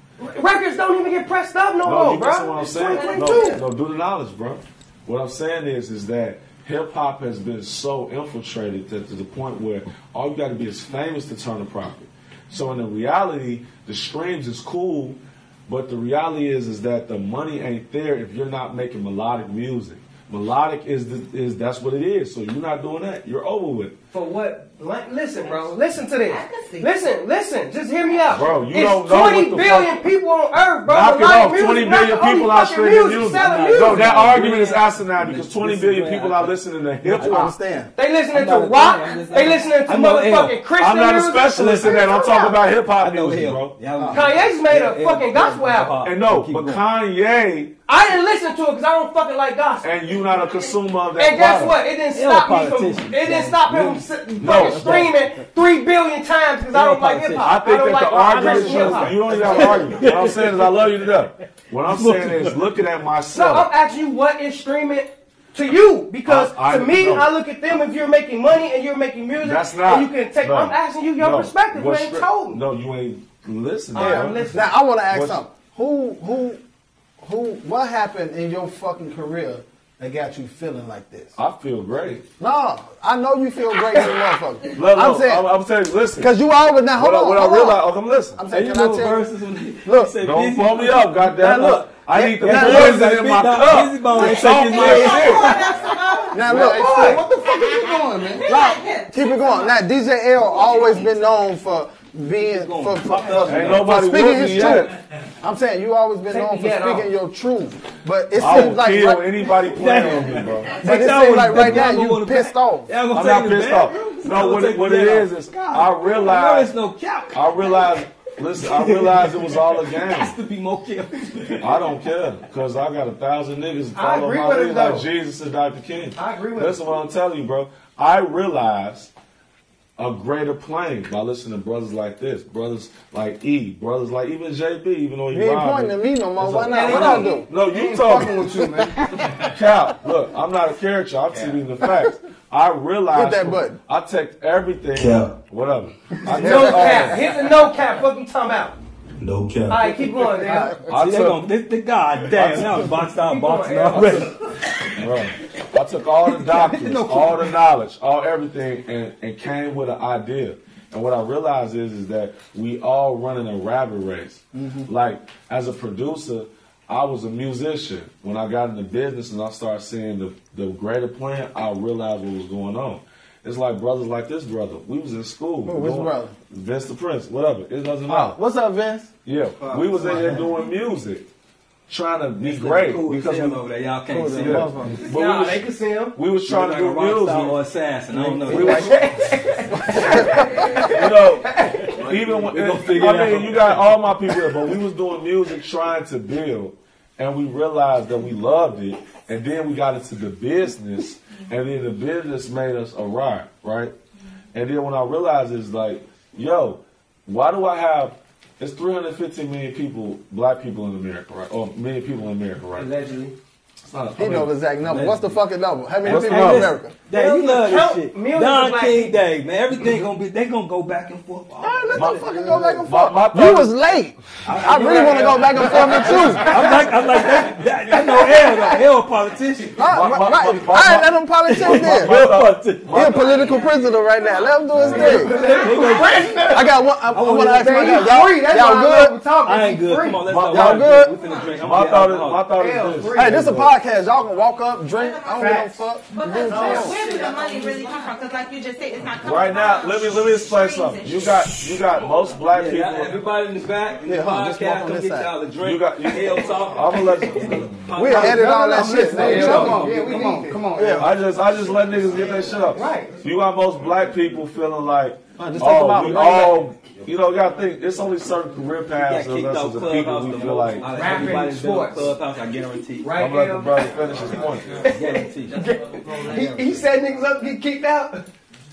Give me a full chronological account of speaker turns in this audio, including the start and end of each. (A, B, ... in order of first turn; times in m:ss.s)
0:00.2-0:03.6 A
0:01.8-0:23.9 B
0:02.7-0:03.6 C
0:24.1-0:34.2 A
0:25.4-0:25.7 C
0:26.3-0:26.9 C
0:28.3-0:29.9 B
0:30.8-0:37.5 B
0:33.3-0:37.5 D
0:37.0-0:37.9 E
0:38.0-0:42.6 A
0:38.3-0:40.6 D
0:39.0-0:39.7 C
0:40.8-0:43.7 B
0:43.0-0:46.8 D
0:44.0-0:44.2 E
0:44.1-0:46.0 A
0:46.0-0:47.7 B
0:47.9-0:50.2 A
0:49.8-0:51.8 B
0:51.2-1:00.0 A
0:52.1-0:55.2 D
0:54.4-0:55.1 B
0:56.7-0:57.5 D
0:57.4-1:03.7 B
0:58.4-1:00.8 D
1:01.9-1:02.6 D
1:03.3-1:12.6 A
1:06.2-1:07.3 B
1:09.4-1:14.5 B
1:13.9-1:14.7 A
1:13.9-1:16.6 E
1:15.1-1:15.4 B
1:17.2-1:21.4 E
1:21.4-1:22.2 B
1:22.4-1:25.5 E
1:24.8-1:26.4 B
1:26.1-1:29.3 E
1:26.9-1:28.4 B
1:28.5-1:35.6 D
1:29.8-1:30.2 E
1:30.2-1:35.6 B
1:31.4-1:33.2 E
1:34.1-1:36.6 C
1:36.3-1:37.1 E
1:36.3-1:38.4 F
1:36.4-1:37.2 A
1:37.4-1:39.8 C
1:38.4-1:44.9 E
1:40.5-1:41.1 C
1:42.5-1:43.9 D
1:43.1-1:43.4 A
1:43.5-1:44.9 B
1:45.4-1:49.5 E
1:46.3-1:47.1 A
1:48.4-1:50.8 B
1:49.7-1:57.9 D
1:50.8-1:52.9 E
1:53.1-1:56.7 B
1:57.3-2:00.4 B
1:58.6-2:01.9 D
2:01.6-2:09.1 B
2:03.9-2:05.1 A
2:06.2-2:06.8 A
2:10.0-2:18.6 B
2:15.3-2:18.8 E
2:16.7-2:17.4 A
2:17.6-2:19.2 F
2:19.4-2:27.2 B
2:21.3-2:21.6 D
2:21.8-2:22.1 E
2:23.1-2:23.8 E
2:25.0-2:25.3 D
2:26.3-2:27.2 E
2:26.4-2:28.8 A
2:29.2-2:30.2 D
2:29.7-2:30.7 A
2:30.4-2:30.9 E
2:30.9-2:31.4 B
2:30.9-2:34.6 D
2:32.2-2:33.0 B
2:33.2-2:34.3 A
2:34.9-2:58.4 B
2:36.2-2:37.5 D
2:44.5-2:44.9 E
2:55.6-2:56.3 E
2:58.1-2:59.1 E
2:59.2-3:01.2 B
2:59.7-3:00.5 D
3:00.0-3:00.4 E
3:01.9-3:03.6 B
3:02.4-3:04.7 D
3:04.1-3:05.0 E
3:04.4-3:07.6 B
3:05.0-3:06.2 A
3:06.4-3:09.0 D
3:08.1-3:09.0 E
3:08.4-3:09.0 B
3:08.5-3:11.8 A
3:10.4-3:10.7 E
3:10.7-3:23.9 B
3:11.8-3:13.9 D
3:24.5-3:32.9 B
3:32.8-3:33.3 A
3:33.8-3:34.6 B
3:34.2-3:36.9 E
3:34.8-3:35.4 D
3:36.0-3:36.8 B
3:36.0-3:42.2 D
3:37.1-3:39.2 A
3:41.6-3:46.8 E
3:41.9-3:43.7 B
3:44.4-3:49.8 D
3:44.8-3:46.9 B
3:49.8-3:52.2 E
3:49.9-3:53.4 B
3:51.4-3:53.3 D
3:52.9-3:59.1 E
3:53.3-3:54.4 C
3:54.7-3:55.5 B
3:54.8-3:58.1 D
3:54.9-3:56.3 A
3:57.5-4:00.3 A
3:59.4-4:02.5 D
4:00.2-4:01.0 B
4:00.5-4:01.1 E
4:01.0-4:01.6 C
4:01.6-4:03.7 B
4:02.6-4:03.4 A
4:03.1-4:07.0 E
4:04.9-4:11.5 C
4:05.3-4:05.7 A
4:06.4-4:08.1 A
4:09.2-4:13.2 B
4:12.5-4:20.3 D
4:14.0-4:15.3 E
4:15.6-4:18.4 B
4:17.0-4:17.2 A
4:17.9-4:20.1 E
4:18.3-4:21.1 F
4:19.0-4:19.7 B
4:19.2-4:20.6 A
4:20.7-4:21.1 E
4:20.9-4:30.9 B
4:22.7-4:23.2 A
4:25.4-4:26.7 E
4:29.0-4:33.1 D
4:30.8-4:32.1 A
4:33.0-4:33.9 A
4:33.2-4:34.8 B
4:34.7-4:38.2 A
4:34.8-4:35.8 D
4:36.3-4:36.8 D